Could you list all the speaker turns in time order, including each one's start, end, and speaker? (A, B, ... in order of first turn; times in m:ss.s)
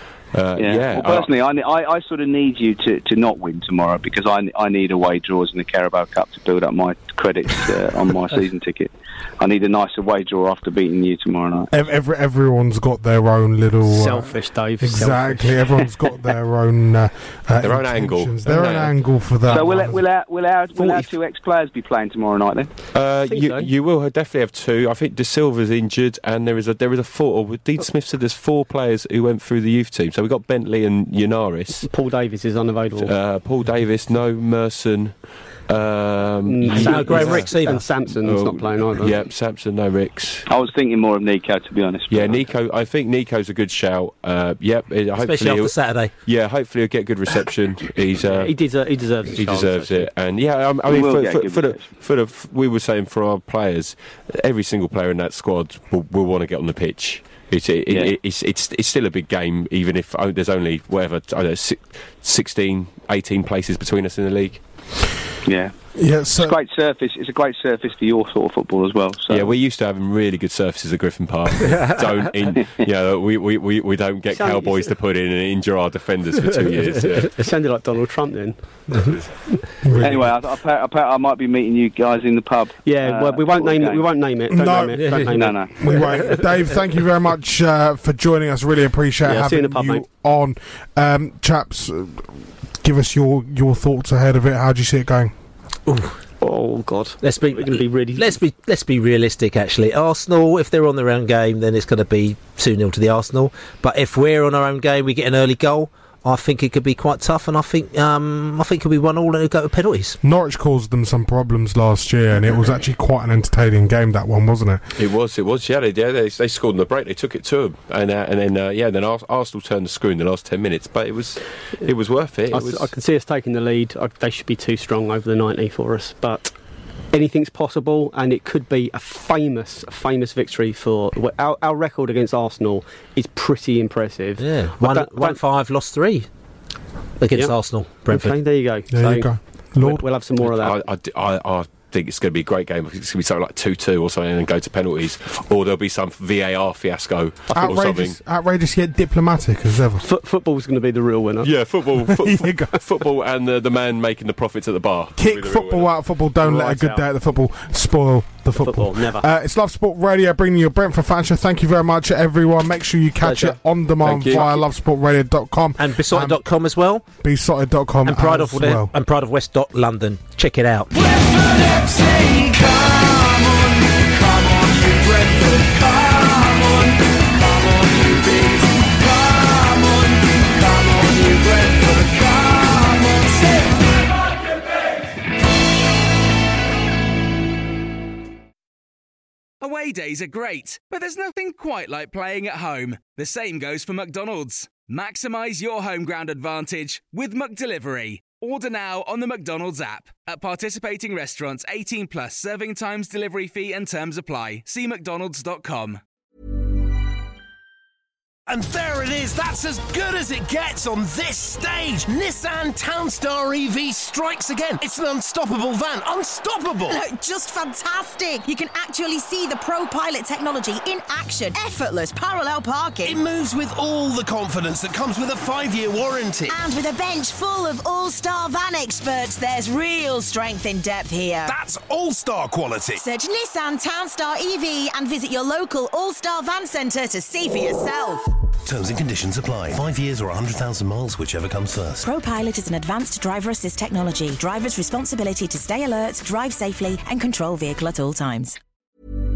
0:00.3-0:01.3 A
0:00.6-0:11.7 B
0:11.7-0:14.3 C
0:13.8-0:15.8 D
0:14.8-0:20.0 C
0:17.6-0:19.5 A
0:19.4-0:22.7 B
0:20.8-0:21.0 D
0:22.9-0:31.9 A
0:23.3-0:23.7 D
0:31.8-0:33.1 D
0:33.0-0:35.1 A
0:35.7-0:37.5 A
0:36.4-0:39.1 D
0:36.7-0:37.8 E
0:38.2-0:40.4 A
0:40.5-0:42.4 B
0:42.1-0:48.5 A
0:45.2-0:46.1 E
0:48.3-0:50.1 D
0:49.3-1:04.6 A
0:50.8-0:51.8 B
1:05.4-1:05.7 B
1:06.0-1:06.5 C
1:06.3-1:09.5 B
1:09.3-1:17.3 A
1:14.3-1:14.9 D
1:17.0-1:19.2 D
1:19.8-1:20.3 C
1:20.0-1:24.1 B
1:22.8-1:26.4 D
1:24.5-1:35.3 C
1:25.0-1:25.3 E
1:25.3-1:25.8 B
1:29.2-1:30.0 D
1:35.9-1:36.1 E
1:36.4-1:38.4 D
1:37.2-1:50.2 E
1:50.2-1:54.8 C
1:55.0-2:02.9 A
2:02.5-2:06.5 D
2:07.1-2:15.4 D
2:14.4-2:16.3 E
2:17.2-2:18.4 E
2:18.1-2:20.8 D
2:18.9-2:20.0 C
2:20.4-2:28.2 A
2:27.5-2:30.0 C
2:30.0-2:31.5 D
2:31.4-2:35.9 A
2:32.2-2:32.7 C
2:35.2-2:46.4 C
2:36.4-2:37.0 D
2:38.6-2:39.2 D
2:43.2-2:43.6 D
2:44.0-2:44.5 A
2:45.8-2:47.0 E
2:47.2-2:48.9 C
2:48.0-2:50.9 E
3:09.6-3:26.0 F
3:28.5-3:37.0 G
3:36.9-3:43.2 H
3:43.0-3:46.6 G
3:46.5-3:51.5 H
3:51.4-3:53.0 G
3:53.0-3:58.2 H
3:58.6-4:02.0 G
4:02.0-4:08.6 H